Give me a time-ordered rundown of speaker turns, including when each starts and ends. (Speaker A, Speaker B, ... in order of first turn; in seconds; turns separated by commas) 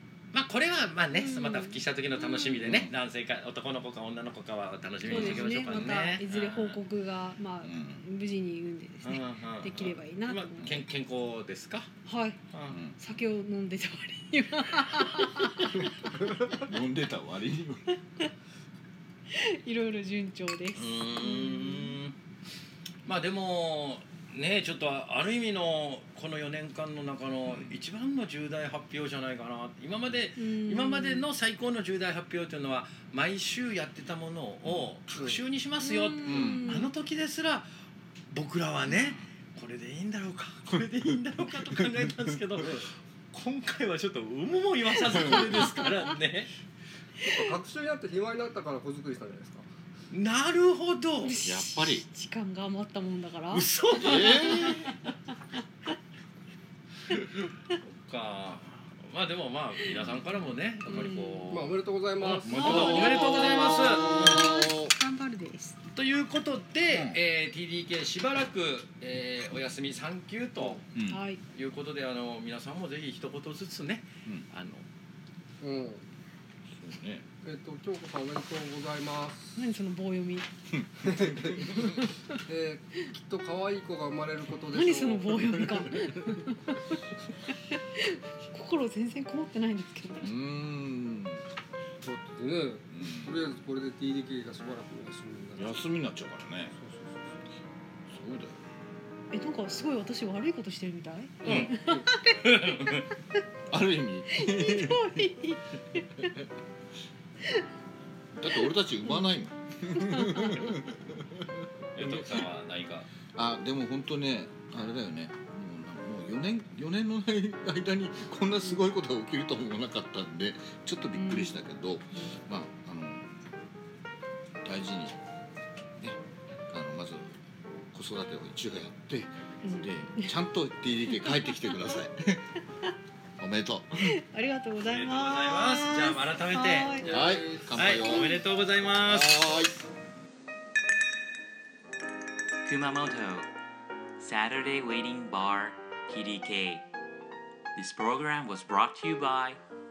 Speaker A: 0.3-6.8, Speaker B: 1.1-2.7, Speaker C: 2.6-2.9, Speaker C: 5.0-5.9, Speaker B: 5.0-10.8, Speaker C: 7.6-8.1, Speaker A: 9.0-11.9, Speaker B: 12.0-12.4, Speaker A: 12.5-12.8, Speaker C: 12.7-13.0, Speaker B: 13.0-16.2, Speaker C: 16.5-17.9, Speaker B: 19.3-21.9, Speaker A: 20.7-22.1, Speaker A: 23.1-37.7, Speaker C: 27.5-27.7, Speaker B: 30.4-31.2, Speaker C: 34.6-34.9, Speaker D: 35.1-35.4, Speaker B: 35.8-36.9, Speaker C: 36.2-36.9, Speaker A: 38.3-46.5, Speaker C: 38.9-39.3, Speaker C: 41.8-42.3, Speaker C: 45.1-45.5, Speaker D: 47.2-49.6, Speaker A: 50.1-51.4, Speaker B: 51.2-54.9, Speaker C: 51.4-52.0, Speaker A: 53.5-54.9, Speaker C: 54.0-54.9, Speaker A: 57.7-64.6, Speaker C: 59.9-60.2, Speaker B: 60.9-61.5, Speaker D: 61.5-63.2, Speaker B: 62.5-65.8, Speaker C: 62.5-64.9, Speaker A: 65.9-70.8, Speaker C: 66.9-67.2, Speaker C: 70.9-71.2, Speaker B: 71.1-71.4, Speaker A: 71.5-74.8, Speaker D: 75.6-76.0, Speaker C: 76.7-77.2, Speaker D: 77.4-79.6, Speaker B: 79.5-80.5, Speaker C: 80.7-82.0, Speaker D: 81.0-85.4, Speaker B: 84.7-86.8, Speaker C: 85.5-85.8, Speaker B: 87.7-90.3, Speaker C: 90.2-91.4, Speaker D: 92.0-95.8, Speaker C: 92.9-93.3, Speaker C: 95.6-96.8, Speaker D: 96.8-97.2, Speaker C: 98.1-98.6, Speaker B: 99.3-102.9, Speaker D: 101.4-102.0, Speaker A: 101.4-101.7, Speaker A: 102.4-103.1, Speaker C: 103.7-105.2, Speaker B: 104.3-106.3, Speaker C: 108.3-111.5, Speaker B: 109.9-110.8, Speaker A: 111.9-113.1, Speaker C: 112.0-112.3, Speaker C: 113.3-123.4, Speaker B: 121.1-121.6, Speaker C: 124.6-125.2, Speaker C: 126.7-127.3, Speaker C: 127.9-132.4, Speaker B: 129.6-130.3, Speaker B: 131.1-131.5, Speaker C: 133.4-134.1, Speaker B: 133.9-137.1, Speaker A: 134.8-137.2, Speaker D: 137.0-138.0, Speaker C: 137.0-138.4, Speaker A: 137.7-139.7, Speaker C: 139.1-139.7, Speaker E: 142.7-143.5, Speaker E: 144.2-146.8, Speaker A: 145.3-145.7, Speaker A: 147.8-149.3, Speaker E: 147.9-149.6